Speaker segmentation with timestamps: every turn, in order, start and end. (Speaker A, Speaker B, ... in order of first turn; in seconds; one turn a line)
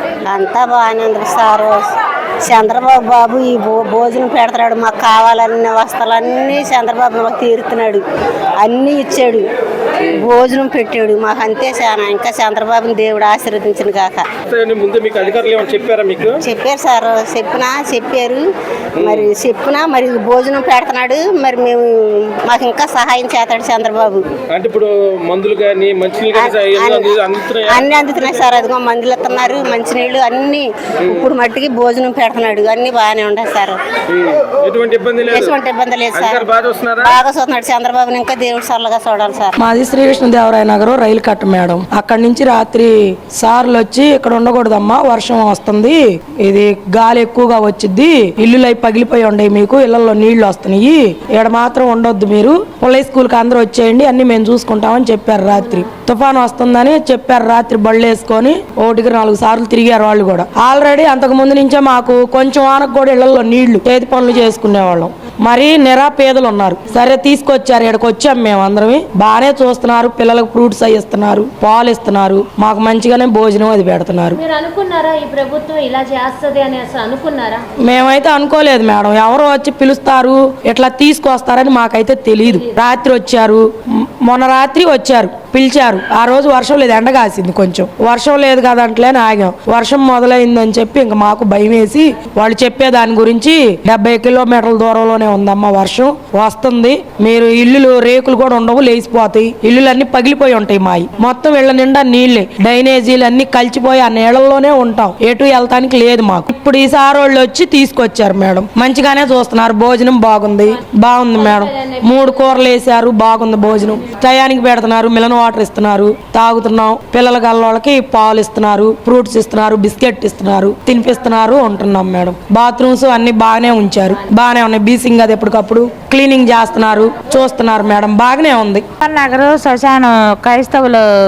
Speaker A: 0.3-1.8
Speaker A: 2.4-8.0
Speaker A: 8.6-9.4
Speaker A: 10.2-14.2
Speaker B: 14.5-16.4
Speaker A: 16.4-18.4
Speaker A: 19.0-24.2
Speaker B: 24.5-27.9
Speaker A: 26.3-33.8
Speaker B: 34.1-35.5
Speaker A: 35.2-36.5
Speaker B: 36.1-37.1
Speaker A: 37.0-39.5
Speaker C: 39.6-74.4
Speaker D: 74.3-77.6
Speaker C: 77.8-83.7
Speaker D: 82.4-82.8
Speaker C: 84.2-128.8
Speaker D: 111.3-112.5
Speaker E: 129.0-131.0